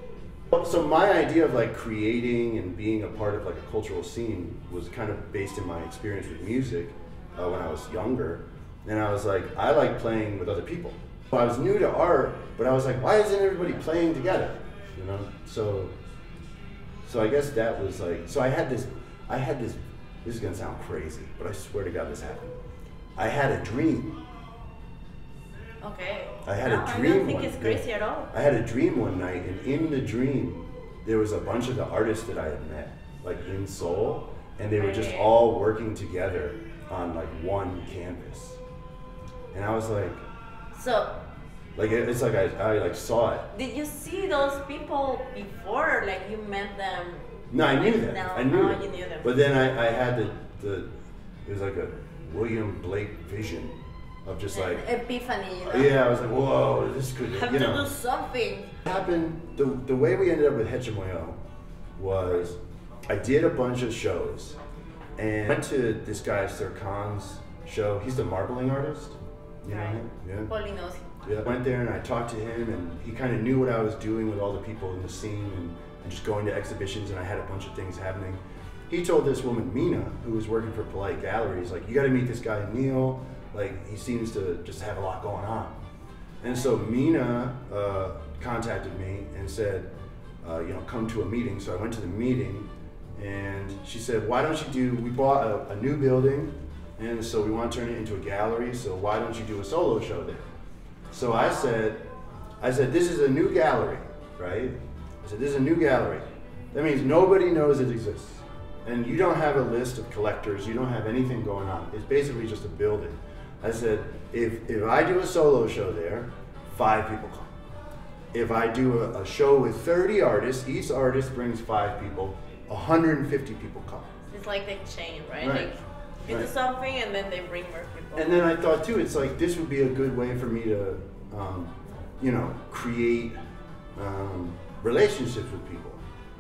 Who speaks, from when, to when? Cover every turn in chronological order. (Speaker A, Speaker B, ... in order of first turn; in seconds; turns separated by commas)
Speaker A: 0.5-15.9, Speaker A: 17.0-22.5, Speaker A: 23.1-24.1, Speaker B: 25.8-28.3, Speaker A: 26.4-38.6, Speaker B: 34.8-35.3, Speaker A: 39.5-40.2, Speaker B: 40.7-41.2, Speaker A: 41.8-43.5, Speaker B: 43.5-49.4, Speaker A: 47.5-50.9, Speaker A: 51.5-54.8, Speaker B: 54.5-56.0, Speaker A: 55.6-57.9, Speaker B: 57.3-58.8, Speaker A: 58.8-61.4, Speaker A: 62.0-64.6, Speaker A: 65.2-70.5, Speaker B: 69.7-71.0, Speaker A: 71.2-85.7, Speaker A: 86.4-89.9, Speaker B: 86.4-86.7, Speaker A: 90.4-100.5, Speaker A: 101.1-102.0, Speaker A: 102.6-117.5, Speaker A: 118.3-124.1, Speaker B: 124.2-128.5, Speaker A: 125.4-125.7, Speaker A: 128.1-133.4, Speaker A: 133.9-136.0